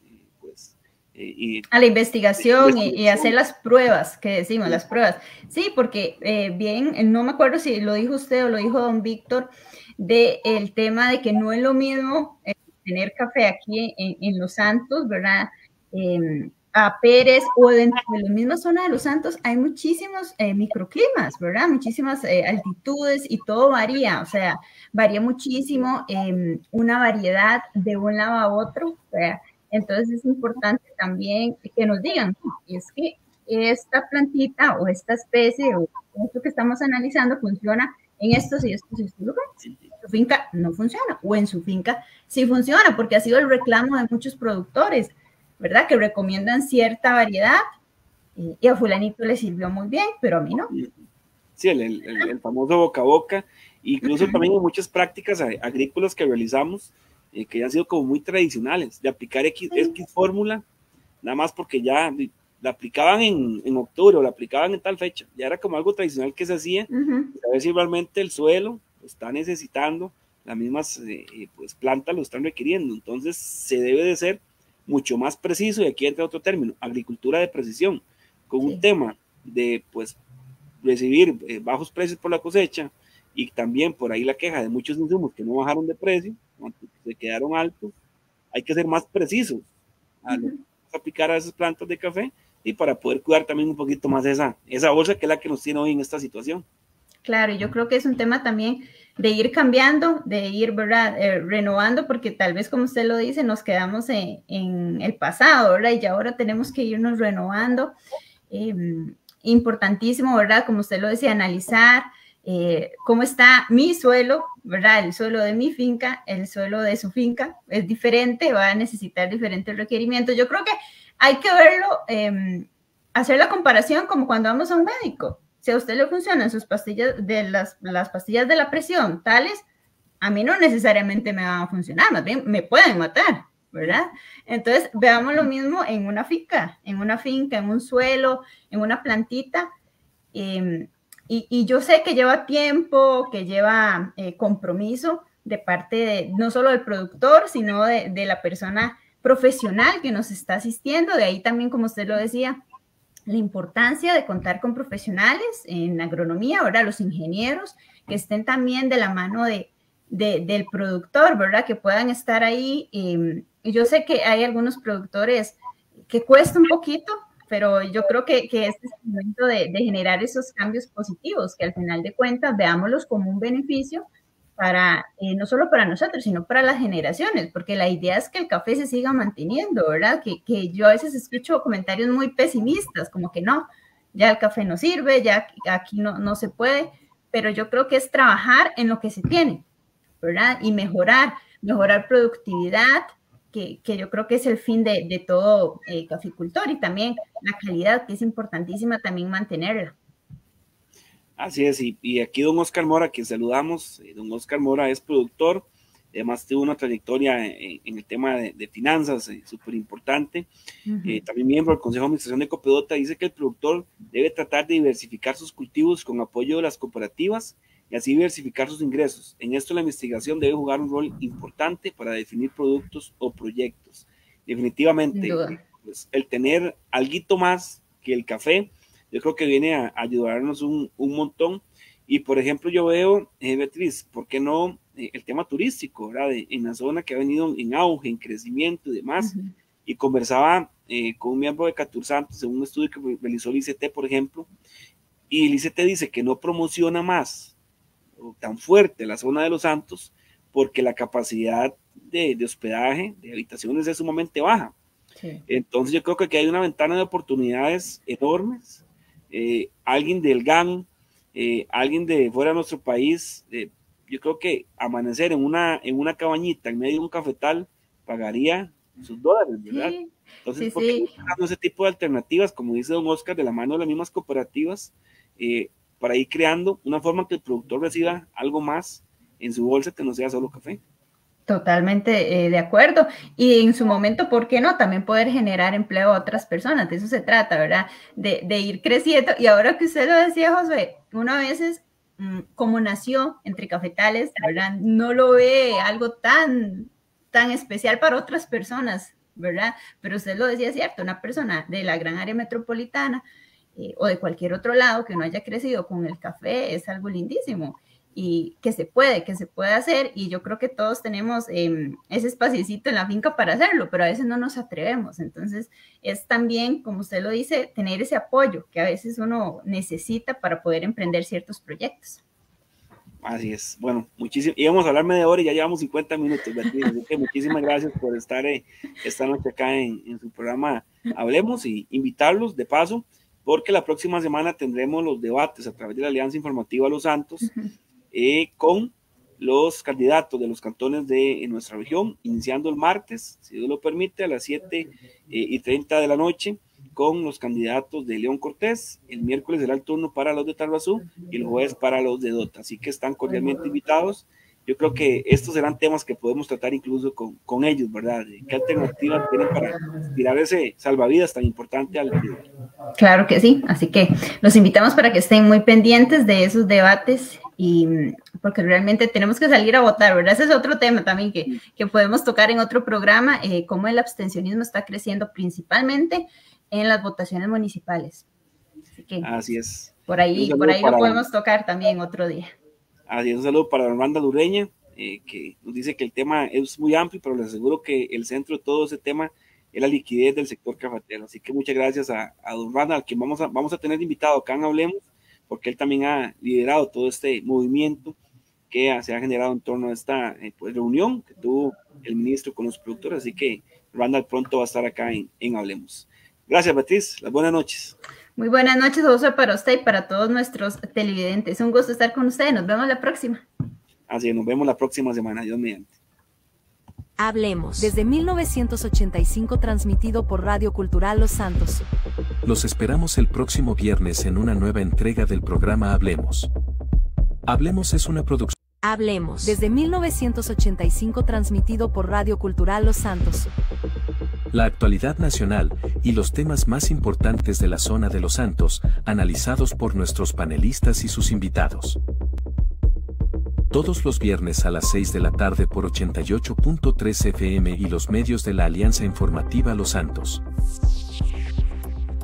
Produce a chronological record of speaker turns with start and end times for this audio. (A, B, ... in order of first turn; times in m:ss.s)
0:00.3-0:01.7 A
0:01.7-0:39.4 B
0:02.4-0:03.3 A
0:40.0-0:47.6 B
0:48.4-0:50.7 B
0:50.7-0:51.0 A
0:51.6-1:00.6 A
0:54.0-0:54.4 B
1:01.2-1:20.2 A
1:06.9-1:07.3 B
1:18.6-1:18.8 B
1:20.8-1:27.9 A
1:28.5-1:29.6 A
1:30.2-1:36.7 A
1:30.3-1:30.6 B
1:37.2-1:47.9 B
1:48.5-2:09.6 B
2:10.2-2:19.7 B
2:20.3-2:32.6 B
2:33.3-2:54.0 B
2:54.6-3:09.6 B
3:10.2-3:20.0 B
3:21.4-3:30.5 A
3:30.9-3:31.2 B
3:31.0-3:59.4 A
3:45.1-3:45.6 B
3:59.2-3:59.5 B
3:59.9-4:04.5 A
4:05.3-4:07.5 A
4:08.2-4:14.8 A
4:15.5-4:40.8 A
4:29.7-4:31.1 B
4:41.5-5:03.2 B
5:03.8-5:22.2 B
5:23.2-5:37.5 A
5:38.1-6:02.4 A
6:03.0-6:18.3 B
6:19.0-6:19.3 B
6:19.2-6:21.2 A
6:20.1-6:22.5 B
6:23.1-6:38.2 A
6:38.7-6:48.0 A
6:48.4-6:53.5 B
6:54.1-6:55.9 A
6:57.2-7:01.9 C
7:02.4-7:06.5 D
7:07.5-7:08.6 D
7:08.8-7:13.5 C
7:14.5-7:22.0 D
7:23.7-7:30.4 D